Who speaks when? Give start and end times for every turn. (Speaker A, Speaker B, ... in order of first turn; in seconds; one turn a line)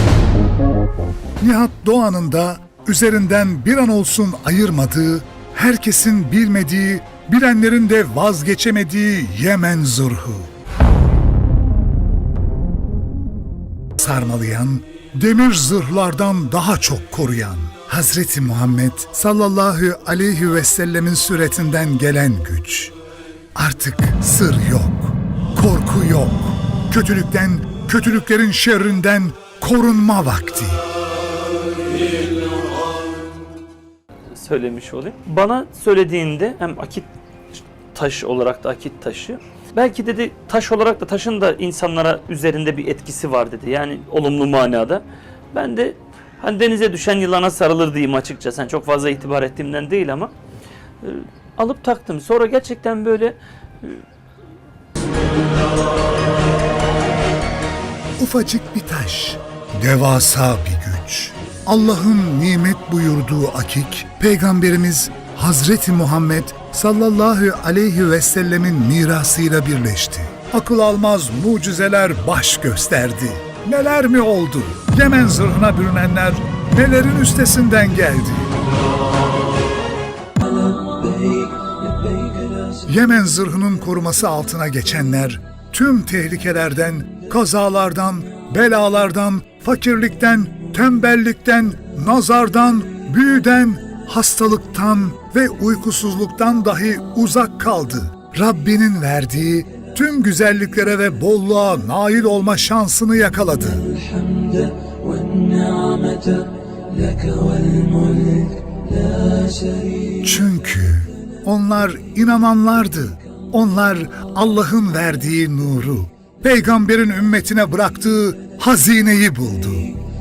Speaker A: 1.4-10.5
Speaker A: 14.0-22.9
Speaker A: 23.6-30.8
Speaker B: 34.4-50.3
Speaker B: 51.0-54.0
Speaker A: 58.2-78.5
Speaker B: 80.4-82.8
Speaker A: 82.8-103.9
Speaker B: 103.9-110.2
Speaker A: 110.2-120.0